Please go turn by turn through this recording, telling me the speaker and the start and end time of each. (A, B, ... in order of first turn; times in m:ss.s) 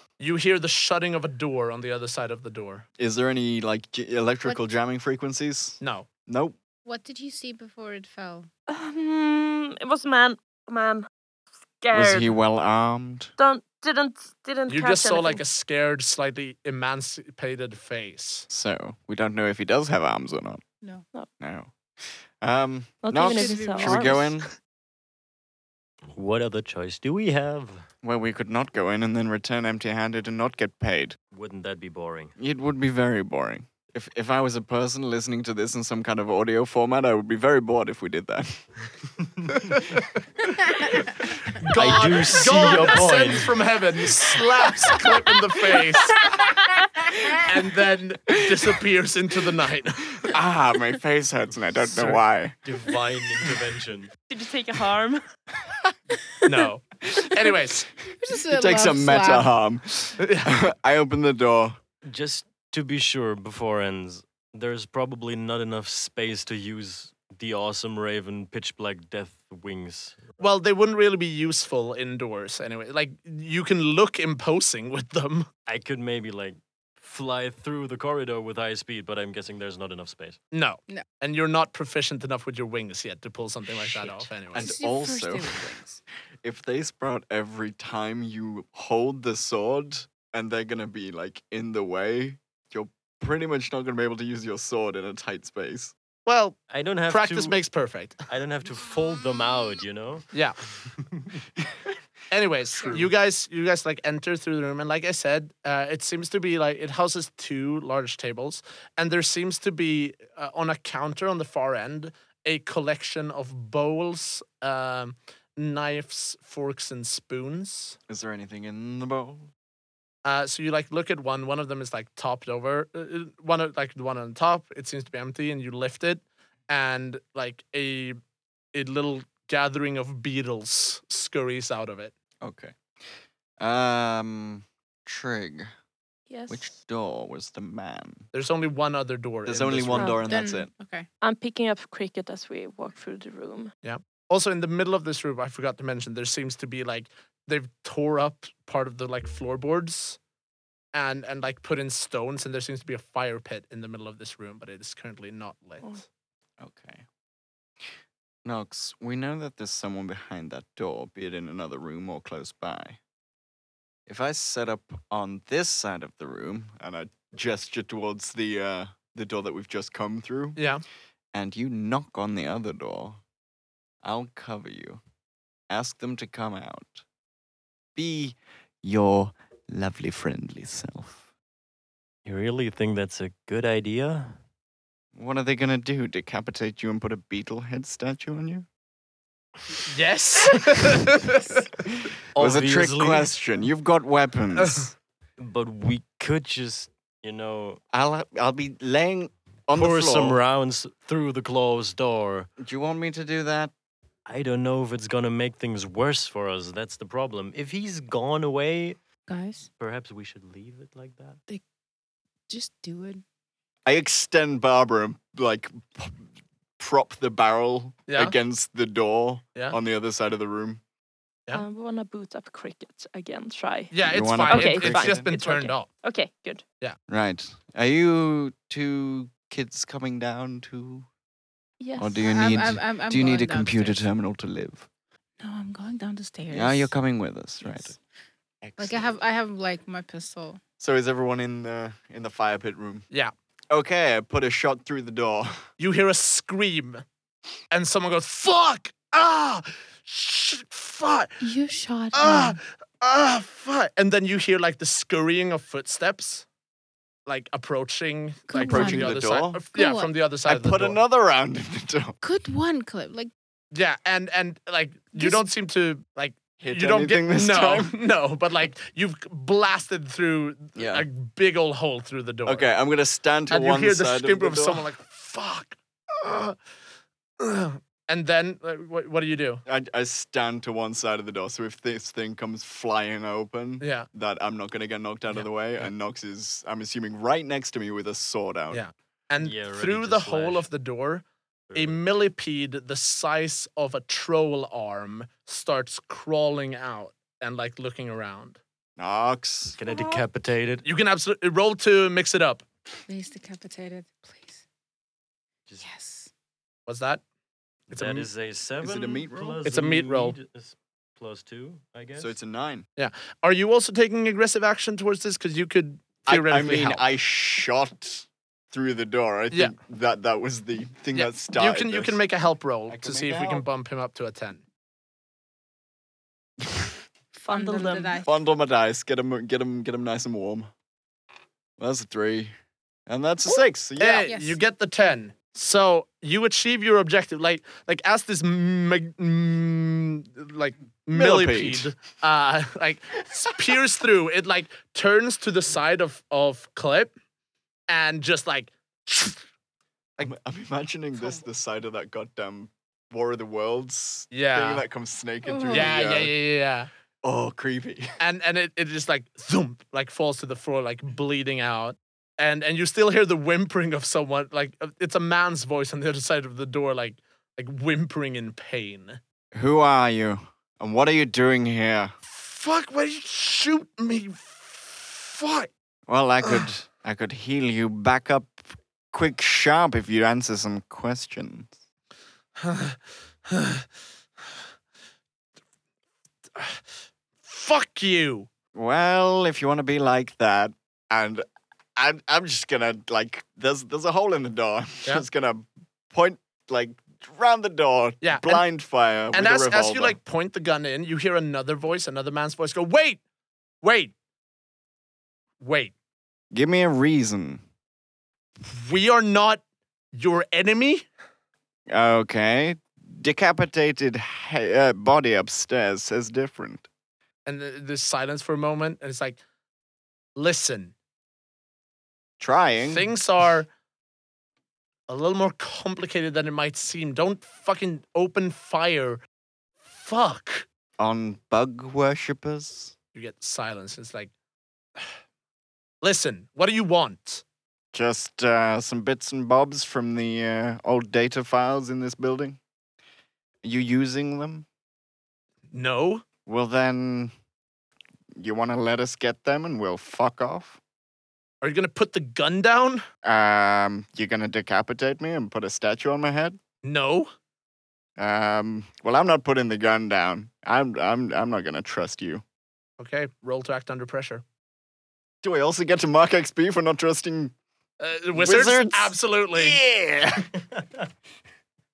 0:00.2-0:02.8 A
0:03.0-0:06.6 B
0:05.8-0:06.1 A
0:06.8-0:08.5 C
0:08.7-0:11.1 D
0:11.8-0:12.4 D
0:11.9-0:13.3 B
0:13.4-0:15.4 D
0:14.7-0:18.5 A
0:18.5-0:20.6 B
0:21.4-0:24.5 B
0:23.0-0:24.4 D
0:23.2-0:24.3 C
0:26.2-0:27.9 E
0:28.0-0:31.2 B
0:31.3-0:32.3 E
0:32.4-0:38.6 B
0:41.6-0:46.2 A
0:41.7-0:43.6 E
0:42.6-0:42.8 B
0:47.4-0:50.3 A
0:50.3-0:52.6 B
0:51.9-0:52.2 A
0:52.6-0:54.1 E
0:54.3-0:55.2 D
0:56.4-0:57.9 A
0:58.2-0:59.5 C
0:58.4-1:01.8 B
1:00.2-1:00.6 A
1:02.1-1:10.3 E
1:10.4-1:15.5 A
1:15.7-1:20.4 E
1:20.5-1:24.8 A
1:24.5-1:25.8 B
1:24.6-1:26.0 C
1:26.4-1:35.9 B
1:36.3-1:38.2 A
1:36.7-1:37.6 E
1:38.3-1:40.3 E
1:42.3-1:58.0 A
1:58.1-1:59.5 B
2:00.2-2:08.2 A
2:08.7-2:12.1 A
2:12.4-2:15.7 B
2:16.3-2:16.7 D
2:16.5-2:18.3 B
2:18.3-2:20.2 A
2:19.5-2:20.7 B
2:20.0-2:20.2 D
2:20.3-2:21.1 C
2:21.2-2:23.7 D
2:23.8-2:30.2 A
2:30.9-2:36.0 A
2:36.6-2:37.1 B
2:38.4-2:43.0 B
2:44.1-2:50.6 B
2:50.6-2:50.8 A
2:51.3-2:53.2 B
2:54.0-2:55.0 B
2:55.7-2:57.0 B
2:58.0-3:01.2 B
3:02.2-3:04.4 E
3:05.2-3:08.7 B
3:09.9-3:11.7 A
3:12.4-3:13.3 E
3:12.4-3:14.9 B
3:14.6-3:14.9 A
3:15.4-3:17.8 E
3:17.9-3:20.4 B
3:19.7-3:22.5 E
3:22.6-3:23.7 B
3:24.3-3:29.0 E
3:29.3-3:29.7 C
3:29.8-3:31.4 E
3:32.5-3:33.2 C
3:33.9-3:36.3 B
3:36.8-3:40.8 B
3:38.1-3:38.4 A
3:41.5-3:43.9 D
3:43.9-3:45.9 A
3:44.1-3:45.3 B
3:44.5-3:46.6 D
3:47.1-3:51.1 B
3:51.8-3:52.2 D
3:52.0-3:54.9 B
3:52.2-3:54.0 C
3:55.4-3:56.9 C
3:56.5-3:58.0 B
3:57.6-3:58.0 C
3:58.6-3:59.1 B
3:58.8-4:00.6 C
4:00.8-4:03.1 B
4:03.7-4:05.7 B
4:05.8-4:07.0 A
4:07.7-4:11.5 A
4:11.4-4:12.6 C
4:12.1-4:16.5 A
4:17.3-4:21.0 A
4:18.5-4:19.1 C
4:18.6-4:19.6 B
4:19.7-4:20.1 C
4:20.5-4:22.2 B
4:22.2-4:23.3 C
4:23.7-4:32.7 A
4:25.2-4:25.4 C
4:26.6-4:27.9 B
4:30.8-4:31.1 B
4:32.5-4:34.9 B
4:33.5-4:36.6 A
4:37.4-4:39.6 A
4:39.7-4:48.8 B
4:43.8-4:44.1 A
4:45.3-4:45.9 A
4:48.7-4:58.6 A
4:49.4-4:50.7 E
4:51.7-4:52.0 E
4:59.0-4:59.8 B
4:59.8-5:00.9 E
4:59.9-5:00.3 D
5:00.8-5:02.6 A
5:03.1-5:04.6 C
5:05.8-5:06.3 C
5:06.9-5:07.2 A
5:07.9-5:08.3 A
5:07.9-5:12.3 E
5:08.8-5:09.6 B
5:09.6-5:10.4 A
5:12.2-5:12.9 B
5:13.0-5:17.0 A
5:16.3-5:22.2 B
5:21.1-5:24.6 A
5:22.9-5:23.6 B
5:27.4-5:28.4 C
5:27.4-5:28.2 D
5:28.2-5:30.7 B
5:31.8-5:32.5 B
5:33.1-5:34.3 B
5:34.0-5:47.1 A
5:34.3-5:34.6 C
5:41.1-5:41.9 B
5:47.9-5:49.4 A
5:50.2-5:56.3 B
5:54.3-5:54.8 A
5:55.4-5:55.9 C
5:55.7-5:56.9 A
5:57.2-5:58.1 B
5:58.2-6:09.2 A
6:09.5-6:12.1 B
6:12.2-6:15.7 A
6:16.1-6:21.8 B
6:22.6-6:23.0 A
6:23.5-6:23.8 A
6:26.6-6:26.8 A
6:27.4-6:28.5 A
6:28.7-6:31.4 B
6:32.0-6:40.2 B
6:38.2-6:38.6 A
6:39.3-6:43.2 A
6:43.8-6:44.1 A
6:45.6-6:45.9 A
6:46.5-6:47.6 B
6:48.7-6:49.6 A
6:50.1-6:51.1 A
6:51.9-6:56.9 B
6:57.5-6:59.4 A
7:00.4-7:00.9 A
7:02.4-7:03.1 B
7:02.9-7:03.7 A
7:05.1-7:09.2 A
7:09.8-7:10.7 A
7:11.0-7:12.9 B
7:13.1-7:14.3 A
7:16.0-7:17.4 A
7:17.9-7:22.6 B
7:23.6-7:24.7 B
7:25.7-7:26.2 A
7:26.5-7:27.3 B
7:28.4-7:30.8 B
7:31.6-7:33.0 A
7:33.2-7:36.6 B
7:36.8-7:37.3 A
7:38.2-7:42.4 B
7:43.0-7:44.4 A
7:45.4-7:47.5 B
7:48.0-7:49.8 A
7:48.3-7:50.6 B